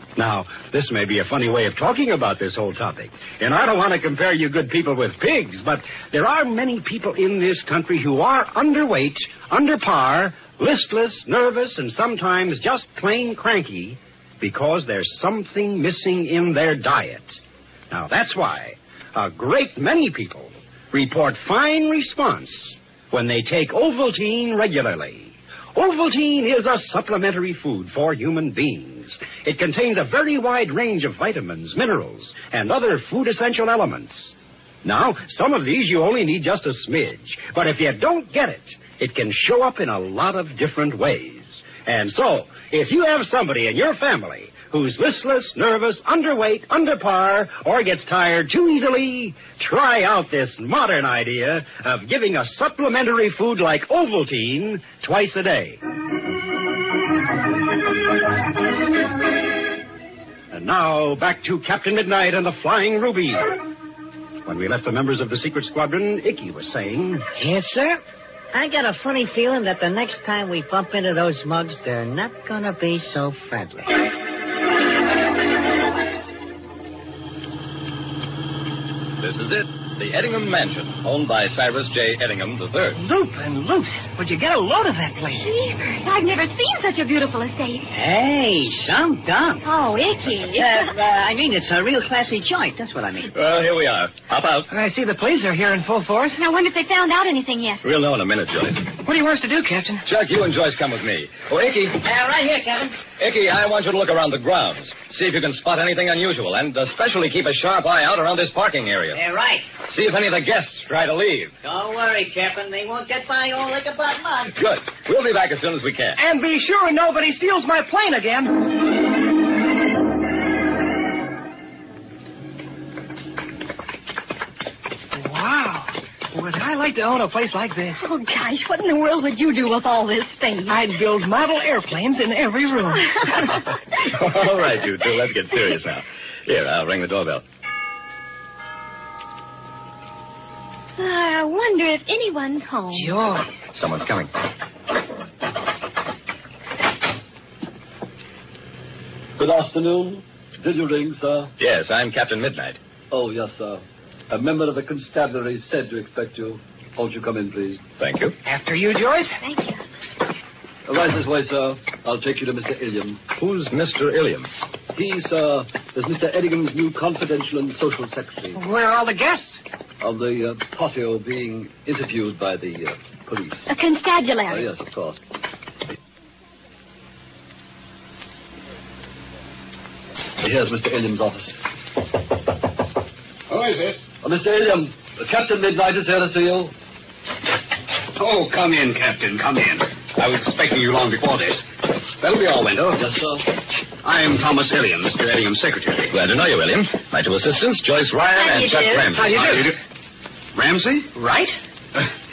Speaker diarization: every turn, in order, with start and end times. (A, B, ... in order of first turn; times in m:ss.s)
0:00.2-0:17.4 A
0:17.9-0:55.8 A
1:00.5-1:03.6 A
1:04.4-1:07.3 A
1:07.4-1:08.0 B
1:08.5-1:14.0 B
1:19.2-1:23.0 C
1:23.0-1:25.5 D
1:25.3-1:27.8 E
1:27.9-1:29.6 B
1:29.6-1:30.9 E
1:30.5-1:33.3 B
1:33.3-1:34.7 C
1:34.7-1:36.4 D
1:36.4-1:37.8 E
1:37.8-1:38.9 C
1:39.0-1:40.0 D
1:40.0-1:42.0 C
1:42.0-1:43.0 B
1:43.2-1:49.2 C
1:49.1-1:49.7 B
1:49.9-1:51.5 C
1:51.6-1:54.6 B
1:54.6-1:56.2 C
1:56.2-1:58.6 D
2:05.1-2:08.0 D
2:08.0-2:10.8 E
2:10.7-2:13.4 D
2:14.0-2:17.4 C
2:21.0-2:23.2 E
2:22.9-2:23.5 D
2:23.7-2:24.3 C
2:29.4-2:31.5 F
2:31.6-2:32.8 C
2:33.1-2:37.8 F
2:38.0-2:38.4 C
2:38.4-2:39.4 D
2:39.4-2:39.8 E
2:40.9-2:43.2 F
2:43.3-2:44.5 C
2:45.0-2:48.6 F
2:48.5-2:49.6 D
2:50.0-2:53.6 F
2:53.7-2:54.7 E
2:54.5-2:55.2 F
3:00.4-3:01.6 F
3:03.5-3:04.0 G
3:04.3-3:06.7 F
3:08.2-3:13.0 G
3:13.0-3:13.4 F
3:14.0-3:16.1 G
3:16.1-3:19.6 C
3:18.3-3:19.1 E
3:19.2-3:19.7 D
3:19.3-3:19.8 G
3:20.6-3:21.1 G
3:21.2-3:21.5 D